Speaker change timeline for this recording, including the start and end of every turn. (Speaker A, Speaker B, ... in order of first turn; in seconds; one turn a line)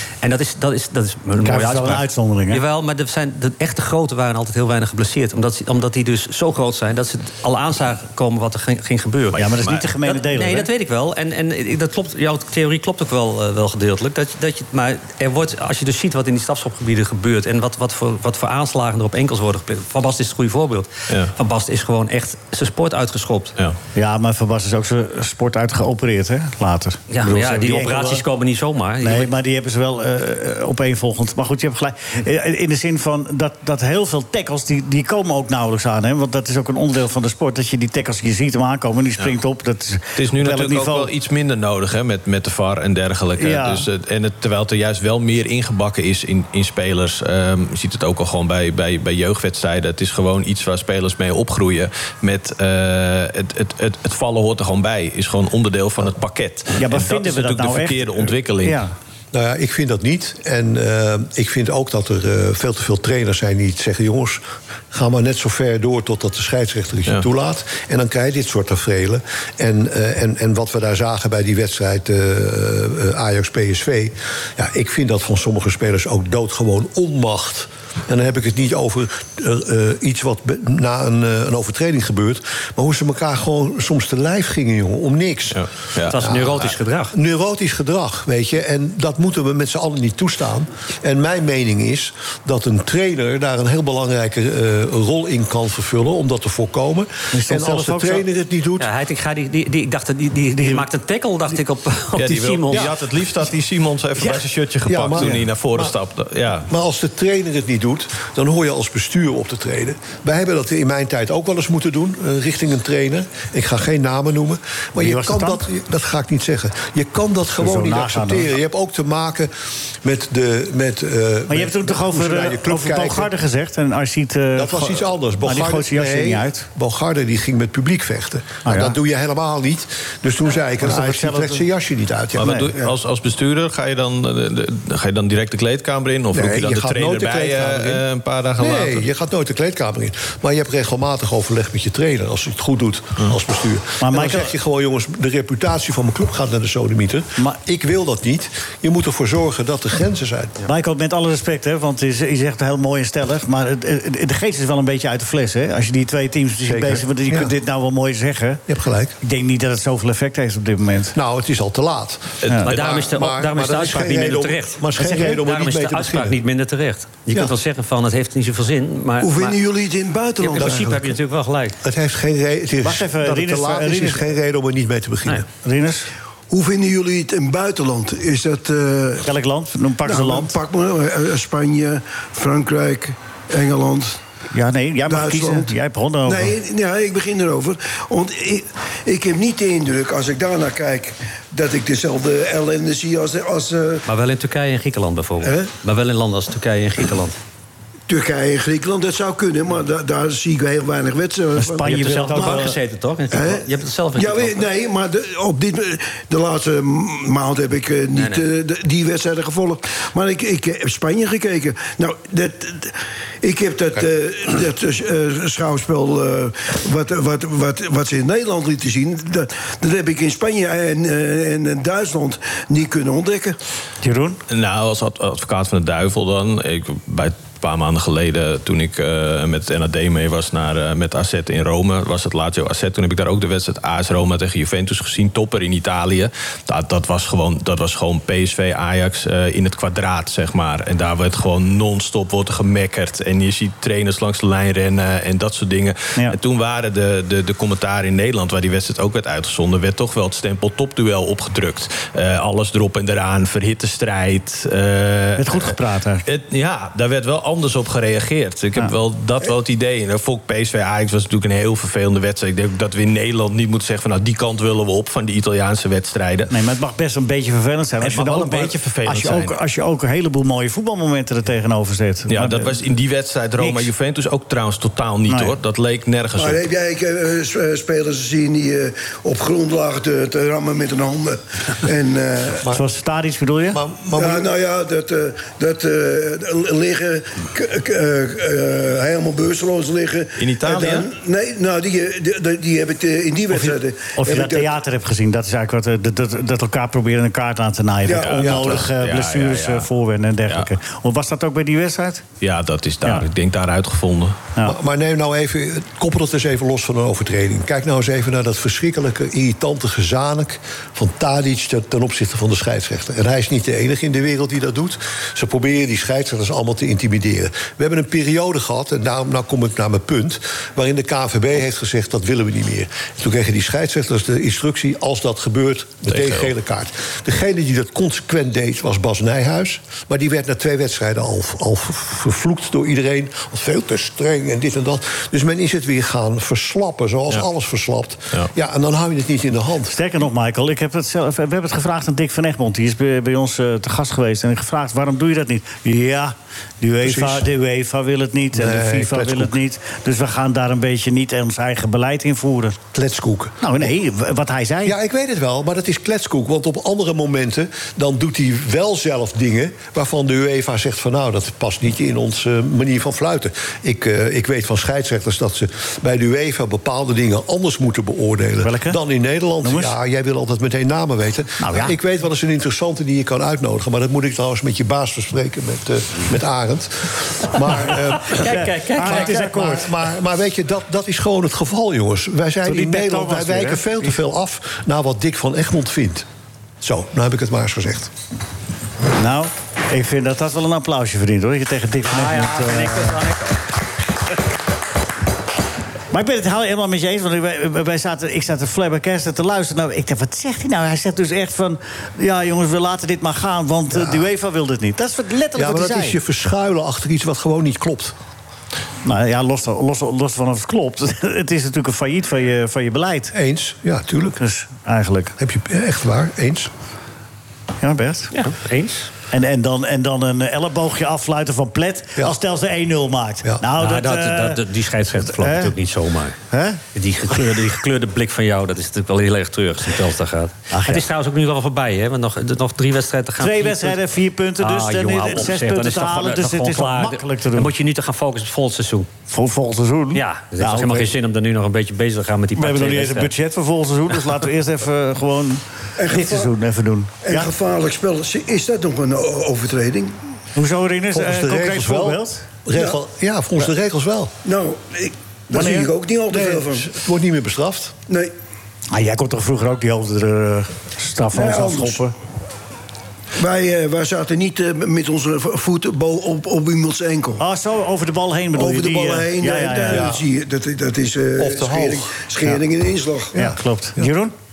Speaker A: 0.2-23.5
Speaker B: 1.4-2.6
Speaker B: 9.3-10.7
Speaker B: 23.9-28.2
Speaker A: 27.1-29.3
Speaker B: 29.0-41.1
Speaker C: 40.2-58.8
Speaker B: 43.4-43.9
Speaker B: 56.8-58.9
Speaker D: 59.3-98.9
Speaker C: 85.5-86.2
Speaker A: 86.1-87.2
Speaker B: 97.3-98.2
Speaker A: 98.8-102.9
Speaker C: 102.2-106.7
Speaker D: 104.9-105.9
Speaker D: 106.7-119.5
Speaker B: 115.0-115.7
Speaker B: 117.5-118.5
Speaker D: 120.0-123.3
Speaker B: 121.5-126.7
Speaker D: 124.5-132.7
Speaker B: 128.7-129.0
Speaker B: 130.8-131.6
Speaker C: 132.3-139.1
Speaker B: 132.4-132.7
Speaker D: 136.3-138.1
Speaker D: 138.6-150.6
Speaker B: 144.0-144.5
Speaker B: 150.7-158.6
Speaker D: 156.6-157.6
Speaker D: 158.7-159.2
Speaker B: 159.2-161.2
Speaker D: 161.1-166.4
Speaker A: 162.7-169.6
Speaker B: 165.0-165.4
Speaker E: 169.2-171.0
Speaker A: 170.4-171.8
Speaker D: 170.6-171.0
Speaker D: 171.8-175.5
Speaker B: 172.8-174.3
Speaker B: 175.6-176.1
Speaker E: 176.5-179.3
Speaker B: 179.2-180.5
Speaker E: 180.1-184.2
Speaker B: 184.5-186.6
Speaker E: 185.1-185.7
Speaker E: 186.3-194.0
Speaker A: 194.1-197.3
Speaker E: 195.4-195.7
Speaker E: 198.1-202.7
Speaker B: 201.6-202.8
Speaker A: 201.8-204.7
Speaker E: 203.3-223.6
Speaker A: 208.2-208.4
Speaker B: 224.0-224.4
Speaker C: 224.5-266.5
Speaker B: 255.4-256.3
Speaker B: 266.5-272.8
Speaker C: 268.0-269.6
Speaker C: 272.3-276.7
Speaker B: 273.6-273.9
Speaker B: 275.3-275.5
Speaker E: 276.4-282.6
Speaker B: 282.7-283.8
Speaker D: 283.7-284.5
Speaker E: 284.1-294.7
Speaker C: 290.4-291.1
Speaker B: 293.5-302.2
Speaker E: 298.1-298.4
Speaker C: 298.2-299.9
Speaker D: 298.4-298.8
Speaker C: 302.4-304.4
Speaker D: 304.6-340.0
Speaker C: 326.1-326.5
Speaker B: 339.9-352.8
Speaker D: 347.0-347.5
Speaker D: 348.5-349.6
Speaker D: 352.9-353.6
Speaker B: 353.6-354.9
Speaker D: 354.9-386.2
Speaker B: 368.6-369.0
Speaker B: 369.6-369.9
Speaker B: 371.6-371.9
Speaker A: 378.2-379.5
Speaker B: 378.3-379.9
Speaker B: 382.7-384.1
Speaker D: 386.8-388.1
Speaker B: 389.2-393.2
Speaker A: 392.1-393.6
Speaker B: 396.1-406.2
Speaker D: 403.9-404.3
Speaker D: 405.6-408.1
Speaker B: 409.0-413.3
Speaker D: 413.3-414.4
Speaker B: 414.4-415.4
Speaker D: 415.4-416.7
Speaker B: 417.8-418.4
Speaker A: 418.4-419.1
Speaker B: 419.3-424.6
Speaker A: 423.8-426.4
Speaker B: 425.2-425.7
Speaker B: 426.5-426.8
Speaker A: 426.9-434.0
Speaker B: 430.7-431.1
Speaker B: 433.4-437.7
Speaker A: 434.6-439.1
Speaker B: 439.3-441.1
Speaker A: 440.1-443.3
Speaker B: 442.6-447.5
Speaker E: 446.0-446.5
Speaker E: 447.2-450.2
Speaker B: 450.6-452.4
Speaker D: 451.1-454.3
Speaker E: 452.7-453.0
Speaker E: 454.4-456.9
Speaker B: 455.5-455.9
Speaker D: 456.3-457.9
Speaker B: 458.9-462.1
Speaker E: 461.3-462.0
Speaker E: 463.4-467.4
Speaker B: 467.4-470.1
Speaker E: 468.6-473.4
Speaker D: 469.9-470.2
Speaker D: 471.4-472.1
Speaker D: 473.4-474.1
Speaker B: 473.4-474.3